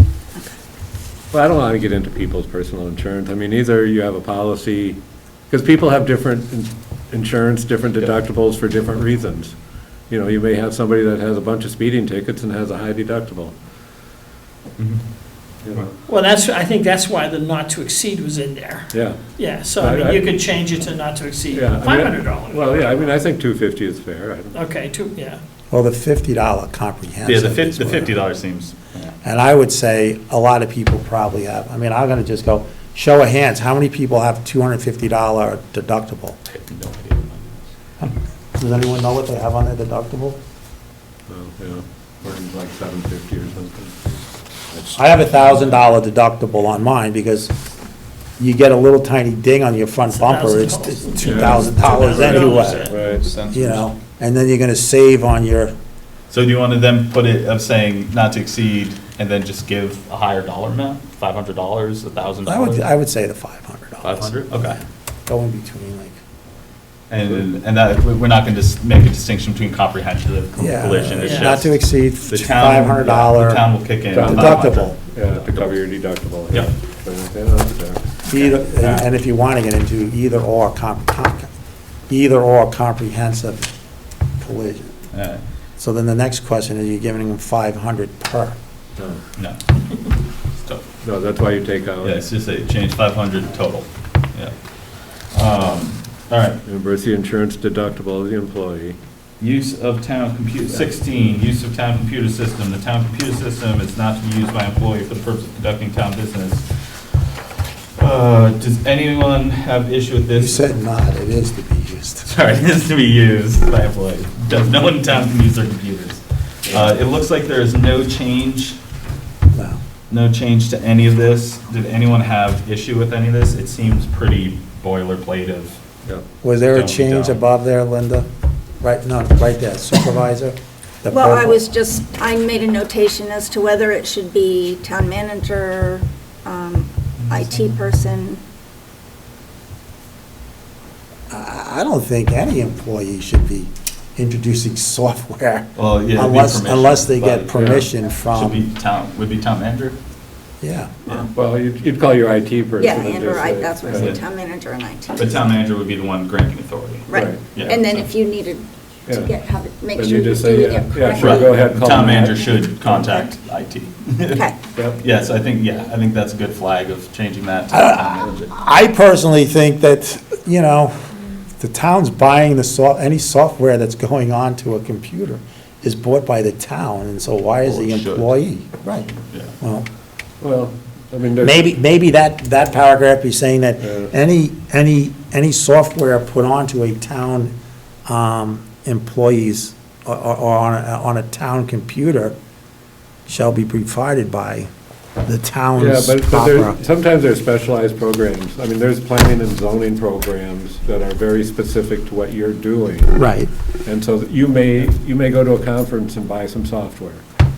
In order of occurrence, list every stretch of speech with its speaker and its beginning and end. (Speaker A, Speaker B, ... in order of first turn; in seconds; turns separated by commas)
Speaker A: 1.3-9.5, Speaker A: 10.1-13.5, Speaker B: 14.8-15.0, Speaker A: 15.6-15.9, Speaker C: 16.1-23.1, Speaker A: 18.9-20.2, Speaker A: 21.5-24.6, Speaker C: 24.5-25.4, Speaker D: 25.7-28.2, Speaker B: 27.2-29.2, Speaker D: 29.2-36.4, Speaker B: 36.5-37.7, Speaker D: 38.5-40.4, Speaker A: 41.3-45.8, Speaker D: 44.9-47.5, Speaker D: 48.4-52.9, Speaker C: 50.0-53.1, Speaker A: 51.2-51.9, Speaker B: 52.0-53.9, Speaker A: 52.9-53.2, Speaker D: 53.5-55.7, Speaker B: 56.3-62.8, Speaker D: 62.4-64.7, Speaker B: 64.0-64.8, Speaker D: 65.3-66.2, Speaker B: 67.1-75.7, Speaker D: 70.6-73.6, Speaker C: 71.2-71.5, Speaker A: 74.1-78.0, Speaker D: 74.2-75.0, Speaker D: 78.2-81.5, Speaker B: 78.3-79.1, Speaker D: 82.1-83.7, Speaker D: 84.4-85.0, Speaker B: 85.1-85.4, Speaker D: 85.8-88.5, Speaker A: 89.0-89.2, Speaker B: 90.5-90.8, Speaker A: 91.0-92.2, Speaker B: 92.0-96.6, Speaker A: 96.6-99.0, Speaker B: 99.4-107.2, Speaker A: 100.7-101.4, Speaker B: 108.0-110.6, Speaker D: 110.4-112.3, Speaker B: 112.2-118.8, Speaker A: 116.7-116.9, Speaker D: 119.5-119.8, Speaker B: 120.1-125.8, Speaker D: 126.4-128.3, Speaker B: 126.6-127.4, Speaker D: 128.8-131.7, Speaker E: 131.1-138.4, Speaker B: 137.2-137.9, Speaker D: 141.3-148.6, Speaker B: 145.8-150.0, Speaker A: 147.5-147.9, Speaker D: 150.6-151.0, Speaker B: 151.1-151.3, Speaker A: 151.3-154.2, Speaker E: 152.8-155.3, Speaker B: 153.9-154.2, Speaker B: 155.2-158.1, Speaker E: 157.1-161.6, Speaker A: 157.1-157.4, Speaker A: 159.1-159.3, Speaker A: 159.9-162.8, Speaker B: 161.1-168.5, Speaker E: 162.9-163.3, Speaker A: 164.8-165.0, Speaker D: 167.7-170.9, Speaker D: 171.6-179.9, Speaker B: 177.6-178.4, Speaker B: 179.1-179.5, Speaker A: 180.4-181.6, Speaker D: 181.4-187.5, Speaker A: 183.8-184.1, Speaker D: 188.1-192.3, Speaker D: 193.3-194.7, Speaker D: 195.2-196.8, Speaker A: 195.8-203.2, Speaker D: 203.1-203.5, Speaker A: 203.8-207.2